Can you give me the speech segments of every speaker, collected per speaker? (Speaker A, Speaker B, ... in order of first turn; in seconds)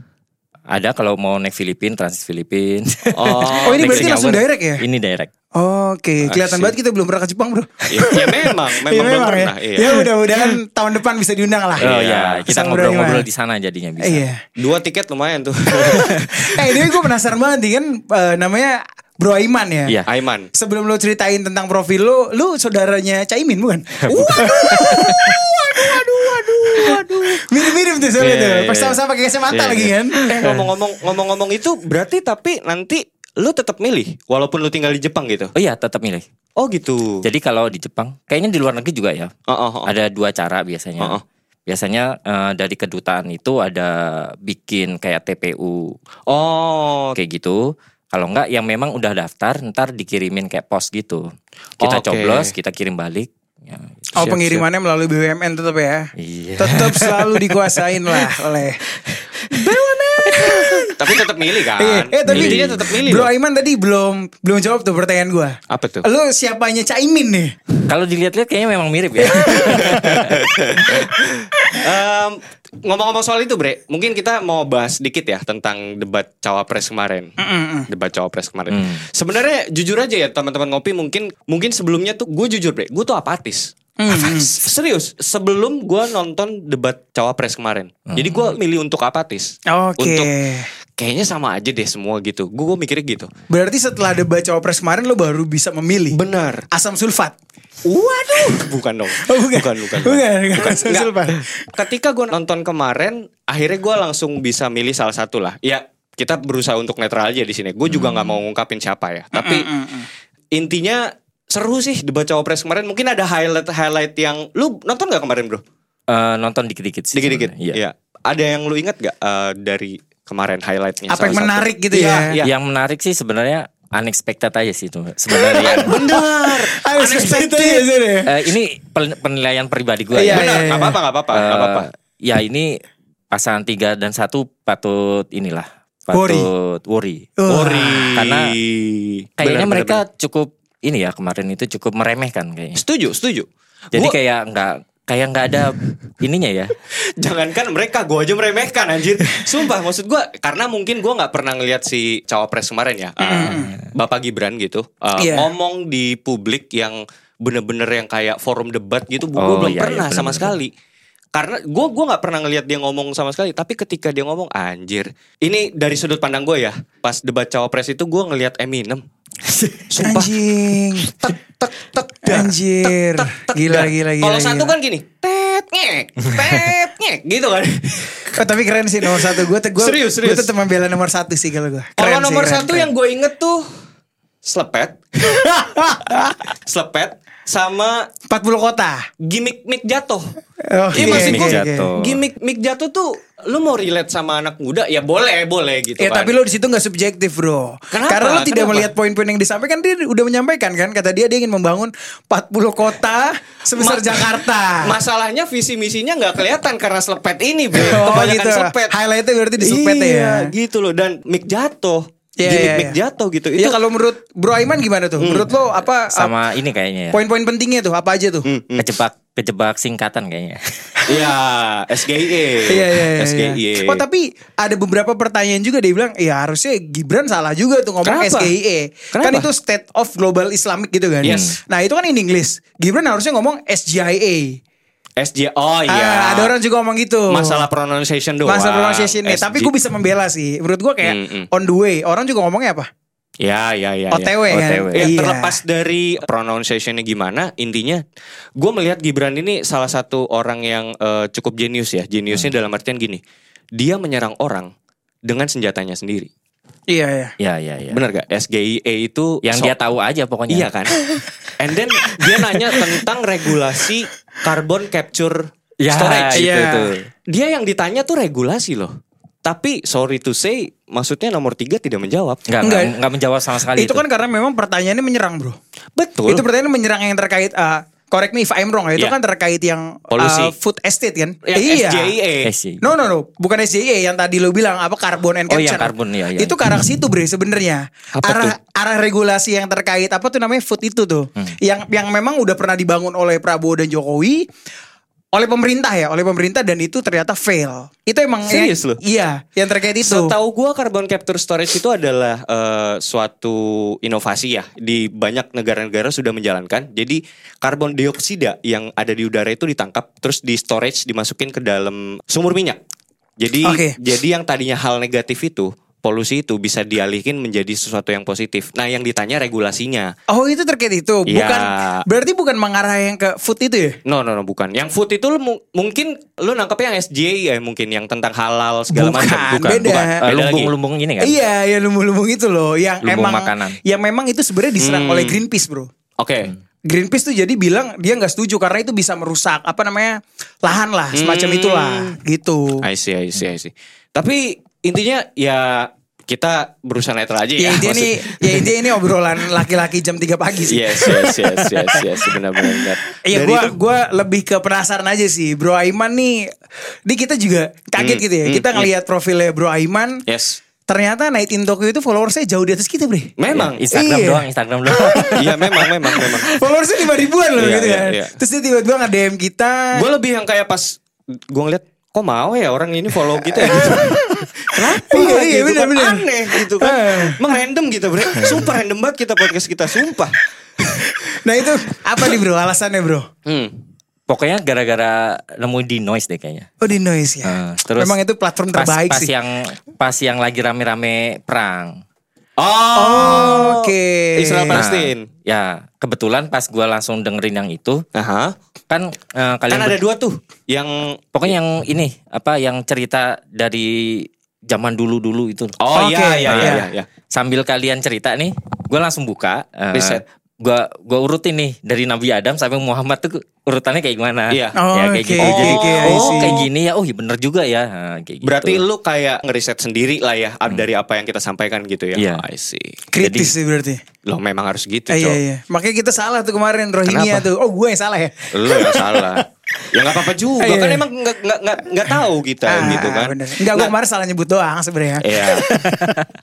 Speaker A: 0.7-5.3, 11.8-14.2, 24.0-25.4, 35.5-36.2, 37.2-39.3, 39.9-46.0, 47.1-51.3, 51.8-54.6, 56.2-58.3, 59.0-59.7, 60.3-60.9, 62.3-63.1, 67.9-70.4, 78.7-79.0, 88.1-88.5, 107.9-108.4, 116.1-117.8, 122.4-125.9, 128.3-130.5, 131.3-137.3, 138.2-138.5, 139.4-142.8, 143.9-146.8, 153.4-153.9, 159.4-160.6, 191.0-192.2, 216.1-217.2, 218.8-221.1, 231.3-231.6, 244.5-245.1, 257.4-258.0, 259.4-260.7, 265.8-266.7, 272.5-274.0, 282.4-282.9, 285.5-286.6, 330.2-331.4, 333.0-333.8, 363.5-365.6, 384.3-386.7, 387.4-388.2, 388.7-392.0, 394.7-398.0, 398.9-400.0, 401.3-405.8, 406.5-418.8, 422.2-422.4, 423.2-423.5
Speaker B: 3.1-4.3, 6.2-6.7, 7.9-10.1, 11.8-12.6, 14.6-16.9, 20.1-20.5, 24.1-27.5, 28.2-29.0, 29.5-35.5, 36.6-37.2, 39.5-39.9, 46.3-47.2, 51.8-52.5, 59.7-63.3, 65.7-66.1, 69.7-77.3, 77.9-90.3, 91.0-93.3, 96.1-96.7, 97.9-109.7, 110.5-115.6, 117.2-122.5, 125.6-127.9, 130.3-131.9, 137.5-140.0, 142.8-144.2, 147.2-160.7, 161.3-169.0, 169.9-170.4, 171.0-178.4, 179.1-180.5, 182.0-183.7, 184.4-185.5, 186.1-188.1, 189.2-190.3, 190.9-196.3, 197.9-198.9, 203.8-209.0, 209.6-213.8, 215.2-215.5, 218.5-218.9, 221.1-224.0, 228.0-228.5, 229.1-229.5, 231.2-231.6, 235.2-236.5, 237.3-239.7, 241.0-241.5, 243.4-244.4, 244.9-248.0, 248.6-253.2, 253.8-254.7, 255.2-256.3, 257.9-259.8, 260.5-261.0, 261.6-268.9, 269.4-272.5, 276.0-276.4, 280.1-280.5, 281.5-282.5, 288.1-288.6, 298.5-299.0, 300.0-312.8, 313.4-320.1, 321.3-322.1, 324.1-330.7, 334.8-335.4, 336.2-336.5, 341.1-342.2, 342.8-348.7, 350.6-353.8, 358.0-358.9, 360.3-360.6, 363.4-363.9, 365.4-366.6, 367.6-368.4, 369.9-371.0, 371.5-380.4, 383.5-383.8, 392.6-395.3, 398.1-398.6, 399.7-401.5, 405.8-407.1, 409.9-410.2, 414.5-414.8, 415.4-416.7, 418.4-423.0, 424.3-425.4, 427.1-427.5, 428.5-433.9, 435.2-435.8
Speaker C: 3.5-4.8, 5.5-11.9, 12.5-13.3, 14.0-14.4, 15.8-20.0, 20.5-30.2, 54.2-58.8, 59.5-67.6, 69.2-70.4, 77.4-77.9, 84.0-84.5, 89.7-90.7, 93.5-96.2, 96.7-97.4, 99.2-101.7, 109.3-110.1, 121.1-122.4, 125.3-128.4, 130.2-131.0, 136.1-136.5, 137.4-138.2, 153.2-153.7, 155.2-155.5, 169.5-171.1, 172.2-174.7, 178.3-182.9, 185.2-186.3, 188.3-189.1, 190.6-191.9, 196.0-205.0, 207.7-210.5, 212.4-213.0, 213.6-216.4, 217.1-218.5, 222.7-234.6, 235.9-237.7, 238.4-242.9, 244.1-245.6, 256.9-257.4, 266.3-266.9, 272.6-272.9, 273.7-275.6, 276.3-282.2, 282.8-294.5, 295.3-300.4, 313.6-314.0, 320.3-324.0, 328.9-330.2, 331.2-335.9, 336.9-342.9, 347.6-356.5, 357.1-360.2, 360.9-363.3, 363.9-370.1, 373.4-377.4, 378.2-378.8, 380.9-383.3, 386.8-389.3, 392.9-394.8, 405.9-406.9, 414.8-416.6, 423.1-424.0, 425.1-431.1, 432.7-436.2